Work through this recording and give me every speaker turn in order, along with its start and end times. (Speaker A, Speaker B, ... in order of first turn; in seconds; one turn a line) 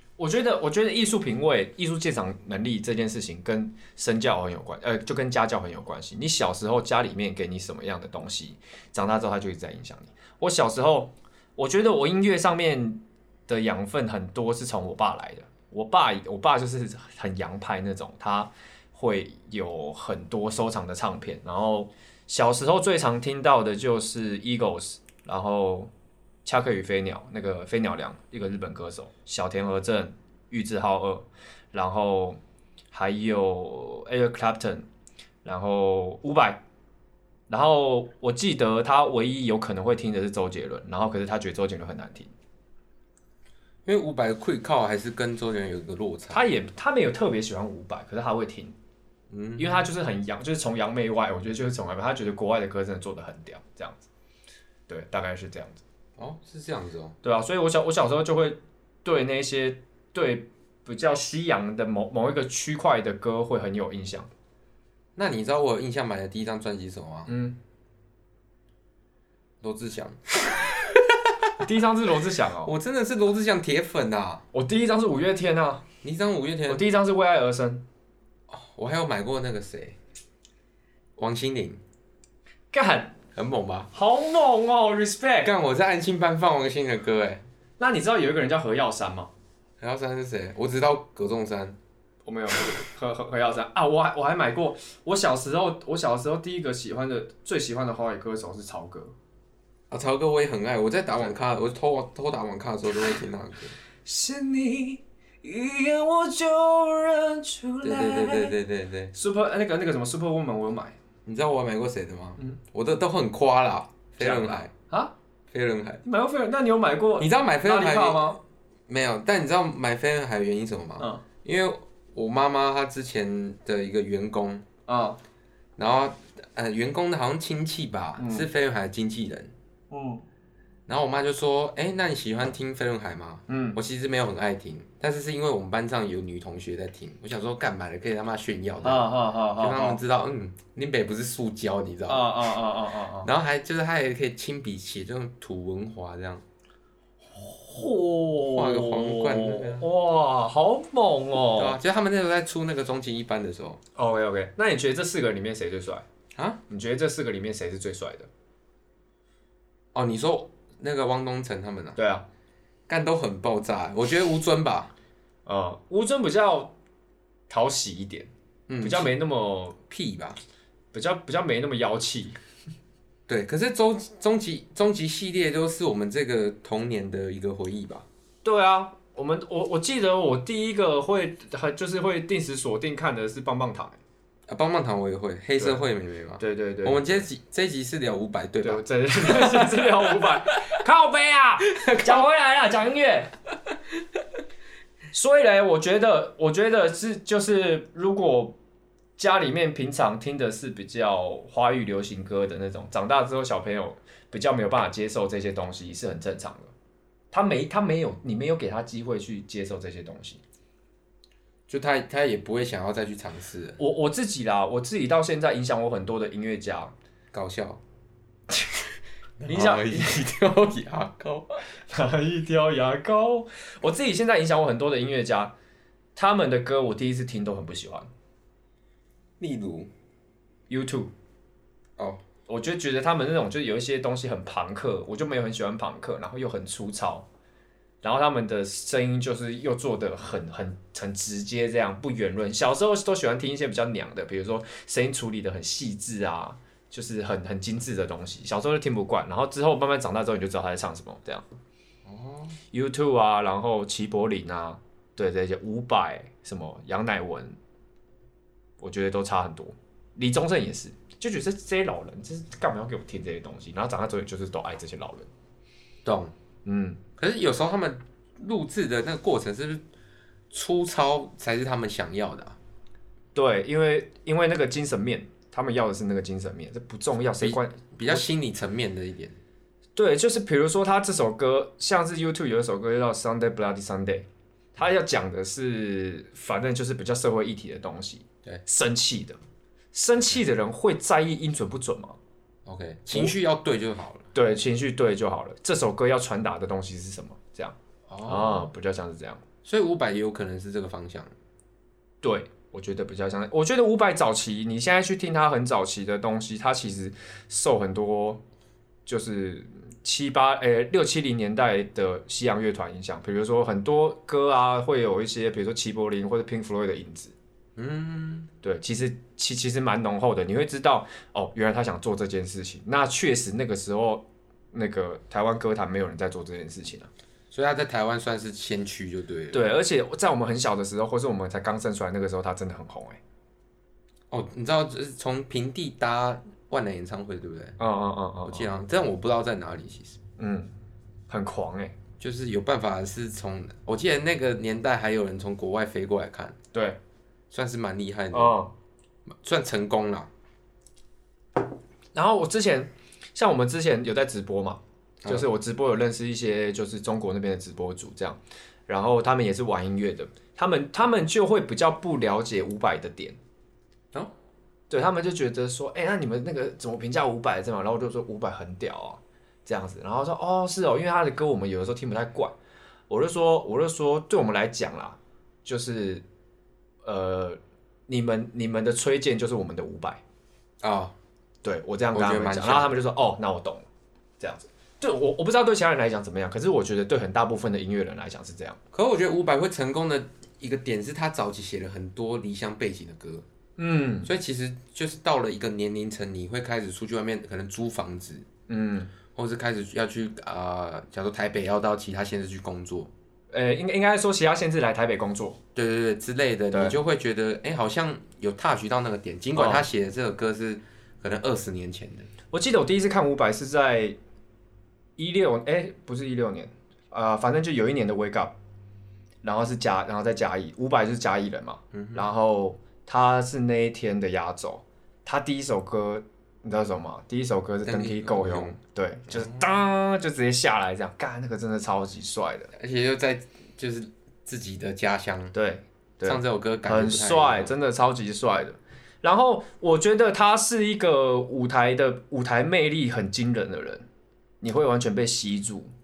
Speaker A: 0.2-25.9
Speaker A: 26.4-32.4
Speaker A: 32.9-34.8
Speaker A: 35.4-36.6
Speaker A: 37.5-42.3
Speaker B: 43.8-46.4
Speaker A: 46.3-48.7
Speaker B: 49.3-49.9
Speaker A: 49.6-54.1
Speaker A: 54.9-55.8
Speaker B: 56.2-57.1
Speaker A: 57.2-64.3
Speaker B: 65.2-67.3
Speaker A: 67.3-67.6
Speaker B: 69.6-71.5
Speaker A: 71.6-72.7
Speaker B: 72.6-74.4
Speaker A: 74.5-75.8
Speaker B: 76.0-76.8
Speaker A: 76.7-77.8
Speaker B: 78.5-80.0
Speaker B: 81.2-81.8
Speaker A: 82.7-83.2
Speaker B: 83.3-83.9
Speaker A: 83.9-85.5
Speaker B: 85.4-87.4
Speaker A: 87.8-89.3
Speaker B: 89.8-91.8
Speaker A: 92.2-99.1
Speaker B: 99.9-103.8
Speaker A: 104.0-108.5
Speaker B: 107.8-109.1
Speaker A: 109.1-111.0
Speaker B: 111.2-114.7
Speaker A: 114.2-115.1
Speaker B: 115.5-116.0
Speaker A: 116.0-118.4
Speaker B: 117.2-124.7
Speaker A: 124.9-125.2
Speaker B: 125.8-129.5
Speaker A: 128.2-128.5
Speaker A: 129.9-130.2
Speaker B: 130.9-142.6
Speaker A: 133.5-133.8
Speaker A: 138.8-140.0
Speaker A: 142.1-143.3
Speaker B: 143.2-146.4
Speaker A: 147.3-151.8
Speaker B: 148.4-149.9
Speaker B: 151.5-153.8
Speaker A: 153.9-156.0
Speaker B: 156.3-156.6
Speaker A: 156.7-158.3
Speaker B: 159.9-162.0
Speaker A: 161.9-162.3
Speaker B: 162.9-164.9
Speaker A: 165.4-166.7
Speaker A: 167.5-168.3
Speaker B: 168.7-169.1
Speaker A: 168.8-169.8
Speaker B: 169.9-170.4
Speaker A: 170.9-172.3
Speaker B: 173.3-178.1
Speaker A: 178.4-184.0
Speaker B: 184.5-190.4
Speaker A: 186.4-187.2
Speaker A: 188.6-193.3
Speaker B: 191.7-192.2
Speaker A: 195.1-198.6
Speaker A: 199.2-206.7
Speaker A: 207.3-210.4
Speaker B: 211.7-213.8
Speaker A: 213.8-216.9
Speaker B: 217.3-217.8
Speaker B: 219.4-221.6
Speaker A: 219.5-220.2
Speaker A: 221.9-225.5
Speaker A: 226.2-228.1
Speaker B: 229.4-229.9
Speaker A: 230.7-231.1
Speaker A: 232.5-237.3
Speaker A: 238.0-251.4
Speaker B: 252.1-252.6
Speaker A: 252.7-257.6
Speaker A: 258.8-265.3
Speaker B: 266.0-266.3
Speaker A: 266.6-267.0
Speaker B: 267.2-269.8
Speaker B: 270.5-272.6
Speaker A: 273.3-278.2
Speaker B: 277.4-279.4
Speaker A: 279.9-289.4
Speaker A: 289.9-292.2
Speaker B: 292.6-294.2
Speaker A: 294.3-299.4
Speaker B: 298.1-298.7
Speaker B: 299.6-301.3
Speaker A: 302.2-308.4
Speaker A: 309.1-317.3
Speaker B: 317.8-318.5
Speaker A: 318.6-327.1
Speaker B: 327.5-329.6
Speaker A: 329.5-333.2
Speaker B: 334.3-337.8
Speaker A: 337.8-338.7
Speaker B: 338.4-340.2
Speaker A: 340.4-340.7
Speaker A: 341.3-341.9
Speaker B: 342.2-346.6
Speaker A: 346.7-347.0
Speaker B: 347.5-348.6
Speaker A: 348.3-348.7
Speaker B: 349.3-350.3
Speaker A: 352.1-363.4
Speaker A: 364.9-372.5
Speaker A: 373.1-376.2
Speaker A: 377.0-380.2
Speaker B: 380.8-381.1
Speaker A: 381.6-383.9
Speaker B: 382.1-383.0
Speaker A: 384.4-388.8
Speaker B: 388.9-393.4
Speaker A: 393.8-394.3
Speaker B: 394.2-398.4
Speaker A: 398.7-399.1
Speaker B: 399.3-403.1
Speaker A: 403.5-405.6
Speaker B: 405.7-412.3
Speaker A: 406.7-407.0
Speaker A: 409.5-409.9
Speaker A: 412.5-414.1
Speaker A: 415.2-418.5
Speaker A: 419.4-432.7
Speaker B: 421.9-422.3
Speaker B: 427.8-428.8
Speaker B: 429.3-429.8
Speaker B: 432.7-435.5
Speaker A: 435.5-444.1
Speaker B: 436.2-437.7
Speaker A: 444.6-445.9